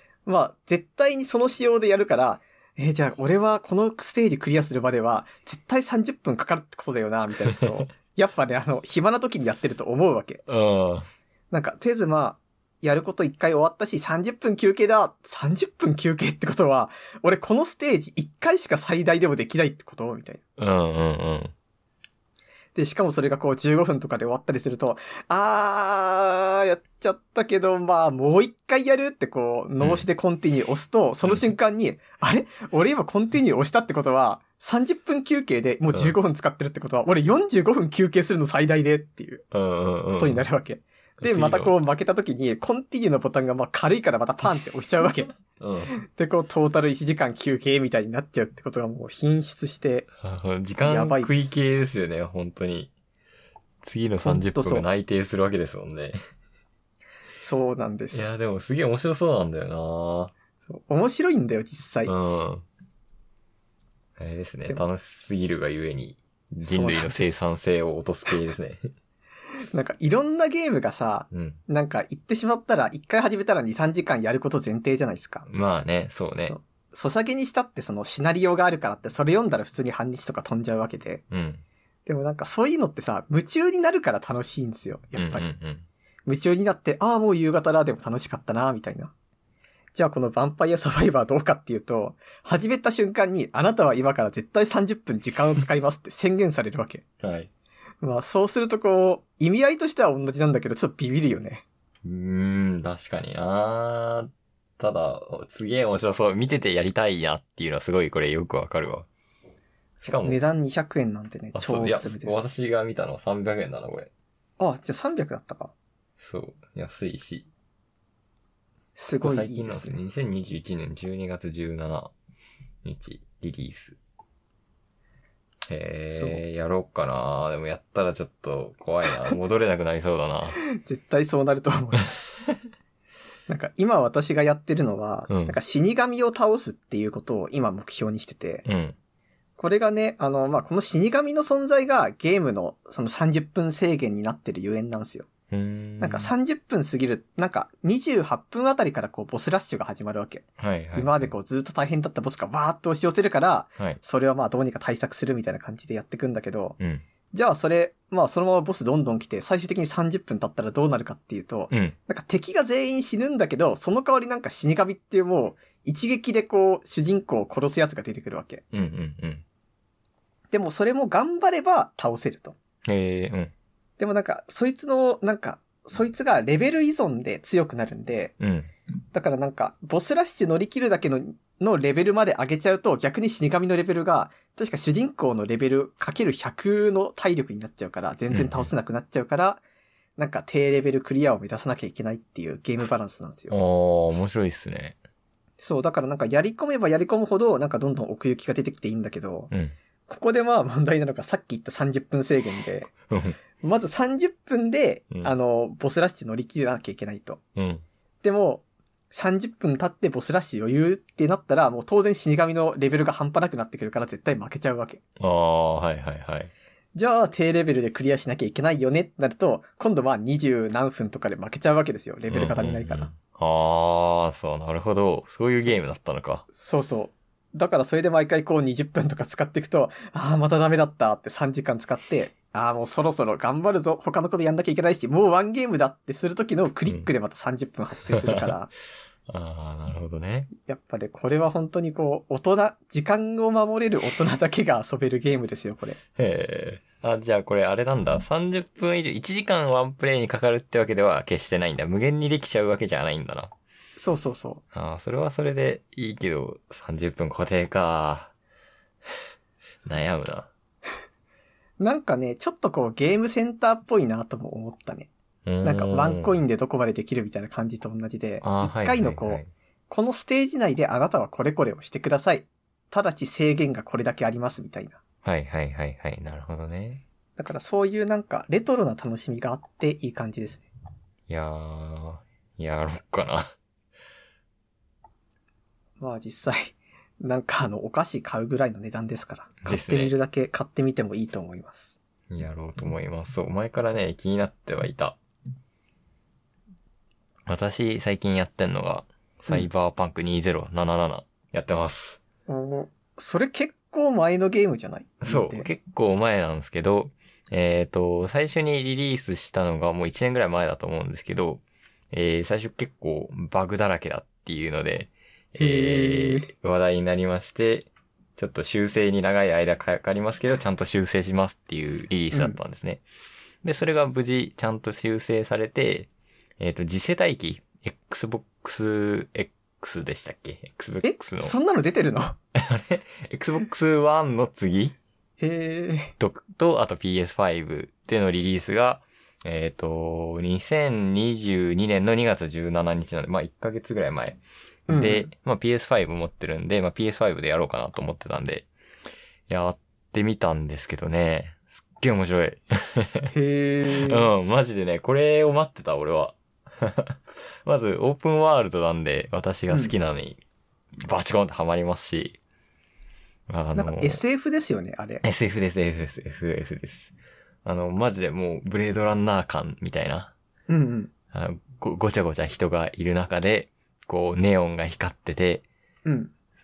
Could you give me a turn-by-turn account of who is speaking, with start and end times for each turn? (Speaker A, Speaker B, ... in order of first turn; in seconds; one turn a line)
Speaker A: 0.3-10.4
Speaker B: 10.5-11.1
Speaker A: 11.5-20.4
Speaker B: 20.6-21.5
Speaker A: 22.8-39.4
Speaker B: 29.8-30.1
Speaker B: 39.5-40.5
Speaker A: 40.1-45.4
Speaker B: 41.2-41.7
Speaker B: 45.6-46.0
Speaker A: 46.0-50.1
Speaker B: 50.2-52.9
Speaker A: 50.8-51.4
Speaker B: 53.8-56.2
Speaker A: 54.2-54.9
Speaker A: 57.4-58.3
Speaker B: 58.1-60.3
Speaker A: 60.6-62.1
Speaker B: 62.0-62.6
Speaker B: 64.2-68.9
Speaker A: 66.6-67.3
Speaker A: 69.7-75.5
Speaker B: 71.3-71.6
Speaker B: 75.5-76.6
Speaker A: 76.4-81.2
Speaker B: 81.3-81.6
Speaker A: 82.1-85.5
Speaker B: 85.2-85.8
Speaker A: 86.3-89.1
Speaker A: 90.0-97.0
Speaker B: 97.2-97.5
Speaker A: 98.0-101.6
Speaker B: 102.0-109.1
Speaker B: 110.0-110.4
Speaker A: 110.0-112.4
Speaker B: 111.5-114.1
Speaker A: 114.6-115.7
Speaker B: 116.2-117.5
Speaker A: 119.0-120.0
Speaker B: 119.2-122.1
Speaker B: 122.8-124.0
Speaker B: 125.7-130.6
Speaker A: 126.1-126.4
Speaker A: 130.6-132.4
Speaker A: 133.5-138.7
Speaker B: 135.3-135.6
Speaker B: 138.7-139.0
Speaker A: 139.6-145.3
Speaker B: 145.5-146.3
Speaker A: 146.0-156.8
Speaker B: 150.6-151.3
Speaker A: 157.3-168.6
Speaker B: 161.7-162.0
Speaker B: 168.7-169.4
Speaker A: 170.5-172.6
Speaker B: 172.8-173.5
Speaker A: 174.0-178.3
Speaker B: 178.4-178.7
Speaker A: 179.1-189.6
Speaker B: 188.3-188.7
Speaker A: 190.2-193.6
Speaker B: 193.5-195.0
Speaker A: 195.6-199.5
Speaker A: 200.1-202.9
Speaker B: 203.1-203.4
Speaker A: 203.6-207.4
Speaker B: 207.6-207.8
Speaker A: 208.2-215.0
Speaker B: 215.2-216.5
Speaker A: 216.9-223.1
Speaker B: 222.3-226.4
Speaker A: 226.5-238.7
Speaker B: 238.1-238.6
Speaker B: 239.3-240.5
Speaker A: 240.6-246.0
Speaker B: 246.2-253.5
Speaker A: 254.0-254.6
Speaker B: 254.7-258.3
Speaker B: 259.9-260.5
Speaker A: 261.8-265.1
Speaker B: 265.5-266.3
Speaker A: 265.6-275.0
Speaker B: 268.4-269.5
Speaker B: 275.2-277.0
Speaker A: 277.4-280.7
Speaker B: 281.3-283.6
Speaker A: 286.0-292.0
Speaker B: 289.6-290.1
Speaker B: 292.3-295.2
Speaker B: 297.5-302.2
Speaker A: 302.5-305.7
Speaker B: 305.2-323.0
Speaker A: 315.6-316.5
Speaker A: 322.3-322.6
Speaker B: 323.6-331.5
Speaker A: 331.0-332.4
Speaker B: 332.6-334.9
Speaker A: 335.4-336.1
Speaker B: 336.2-348.7
Speaker A: 344.9-345.3
Speaker B: 349.5-353.3
Speaker A: 353.3-354.3
Speaker B: 354.1-360.4
Speaker B: 361.0-362.4
Speaker B: 363.5-364.2
Speaker A: 363.8-365.2
Speaker B: 365.2-367.1
Speaker B: 367.6-370.3
Speaker A: 370.7-371.1
Speaker B: 371.3-375.6
Speaker A: 376.1-376.3